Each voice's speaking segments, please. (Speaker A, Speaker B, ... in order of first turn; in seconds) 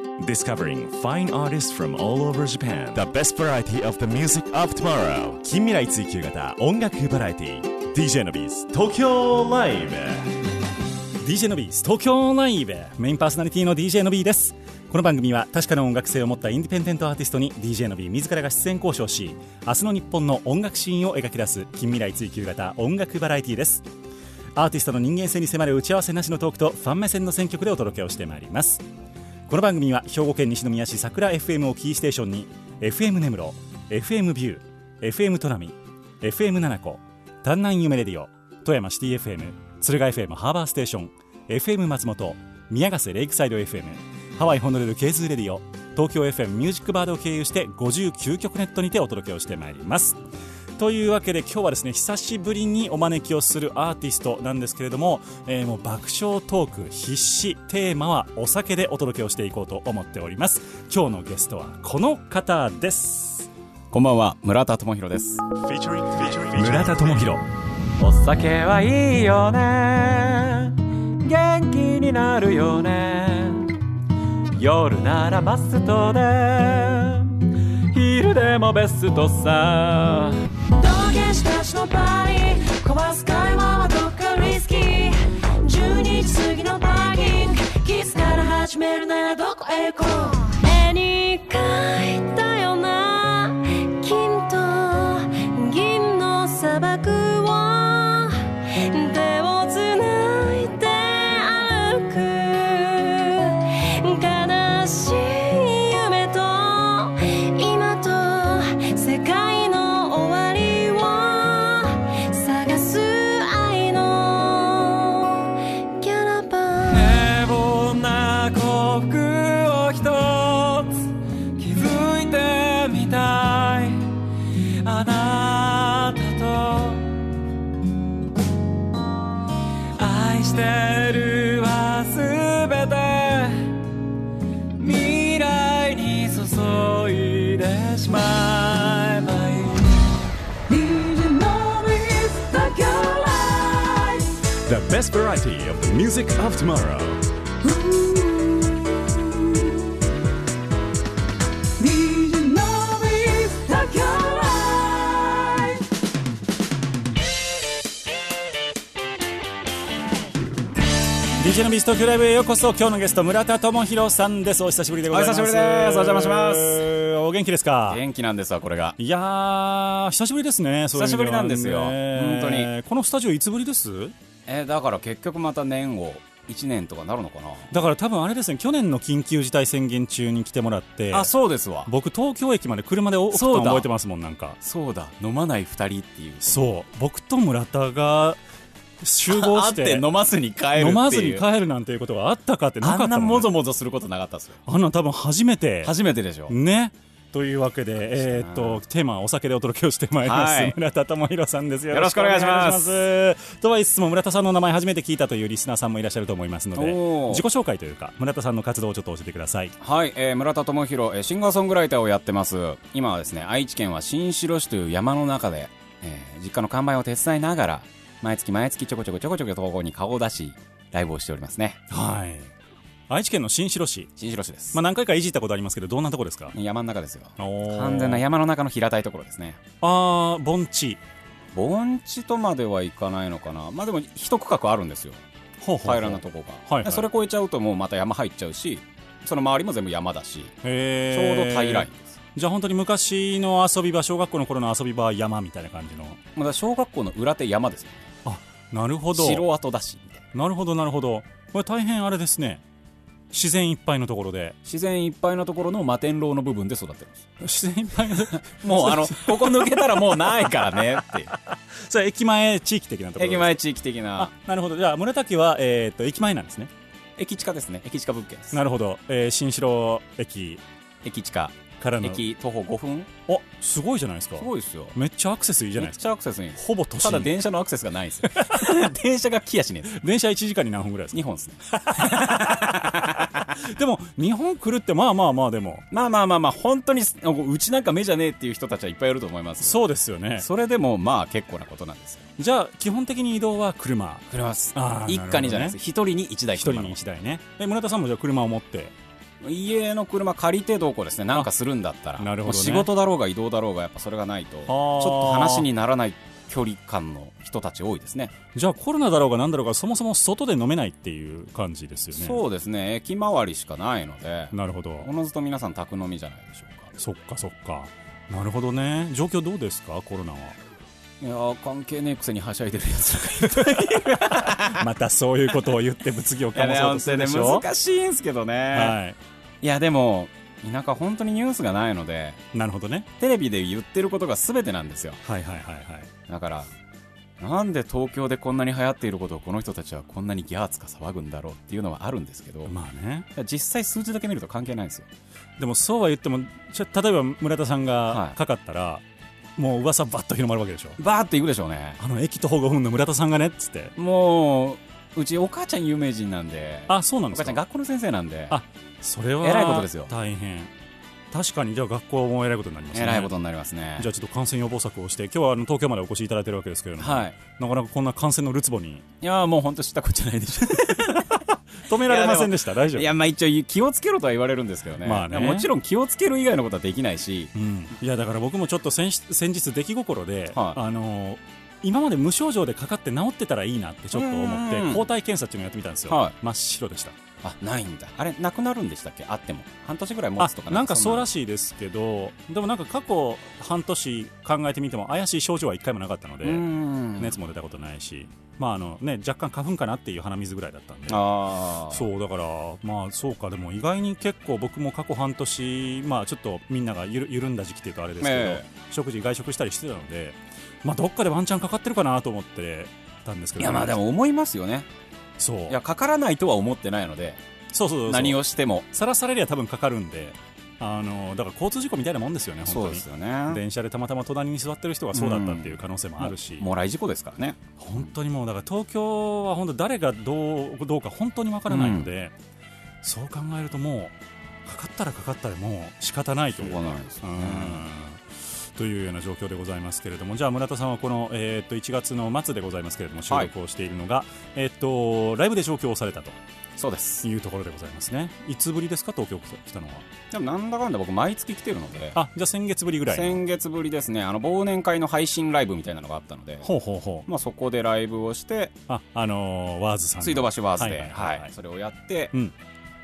Speaker A: 0.2-10.3, 66.0-67.2, 144.5-147.2
Speaker B: 11.2-23.8, 24.6-28.8, 29.5-50.2, 50.8-63.5, 65.8-67.4, 161.4-168.0, 169.0-174.1, 177.7-181.3, 181.8-184.6, 186.4-188.4, 189.0-190.1, 190.7-193.5, 194.7-195.9, 196.5-209.7, 221.9-222.5, 223.1-224.1, 224.7-226.5, 227.4-228.2, 229.8-231.0, 235.6-237.1, 240.6-246.2, 248.2-249.5, 250.3-252.6, 253.3-254.6, 257.4-260.8, 261.3-263.6, 264.2-266.7, 268.5-270.6, 271.8-272.2, 273.3-276.0, 276.6-277.3, 279.9-285.9, 289.6-290.5, 292.4-295.8, 296.6-298.9, 302.2-302.9, 304.7-305.7, 308.5-312.4, 314.5-315.1, 317.0-320.6, 323.5-327.7, 328.7-329.2, 332.5-333.1, 335.2-336.1, 342.6-343.3, 345.6-349.0, 349.6-351.0, 352.0-353.9, 356.9-357.6, 358.5-360.7, 361.3-363.3, 364.0-369.1, 371.1-373.1, 375.0-375.7, 377.5-387.2, 390.4-396.6, 397.2-401.3, 401.9-414.0, 415.4-415.8, 417.7-426.7, 427.8-432.3, 433.0-434.1, 434.6-438.2, 438.7-446.4, 447.2-450.1, 452.1-453.4, 456.6-457.3, 458.9-461.5
Speaker C: 63.9-65.4, 68.0-73.7, 74.5-80.4, 116.9-124.1, 124.8-127.2, 129.9-133.8, 134.8-140.0, 165.1-166.8, 167.9-169.0, 170.9-172.7, 174.4-177.7, 181.1-181.9, 183.3-183.9, 184.6-186.7, 189.3-191.4, 192.8-194.6, 195.8-196.5, 198.2-198.8, 200.2-200.8, 201.9-203.0, 206.7-207.4, 209.8-221.8, 224.2-224.8, 226.5-229.6, 231.5-235.2, 235.8-240.6, 241.1-242.2, 246.3-248.1, 249.1-250.2, 254.6-257.2, 258.5-261.3, 263.2-264.3, 267.2-268.6, 271.0-273.1, 274.4-274.9, 275.8-279.9, 281.1-283.5, 285.9-289.8, 290.4-292.2, 294.3-297.0, 299.4-308.3, 312.1-316.9, 321.2-324.9, 326.5-329.0, 329.6-332.4, 333.2-335.2, 336.3-336.7, 337.4-342.7, 343.3-345.1, 348.1-348.4, 351.0-352.0, 353.9-358.6, 359.4-360.1, 362.9-364.1, 367.0-367.3, 369.2-371.3, 371.9-377.5, 380.5-380.8, 384.1-385.1, 386.1-386.3, 387.4-391.3, 396.4-397.4, 401.1-402.1, 408.2-408.7, 413.6-414.9, 415.7-417.4, 418.1-418.9, 422.6-423.6, 425.1-427.6, 431.7-432.1, 436.6-437.8, 446.8-447.2, 450.3-452.2, 453.1-456.6, 457.3-458.7, 460.2-462.3
Speaker D: 80.7-117.2, 140.7-144.2, 147.6-149.7, 151.8-155.8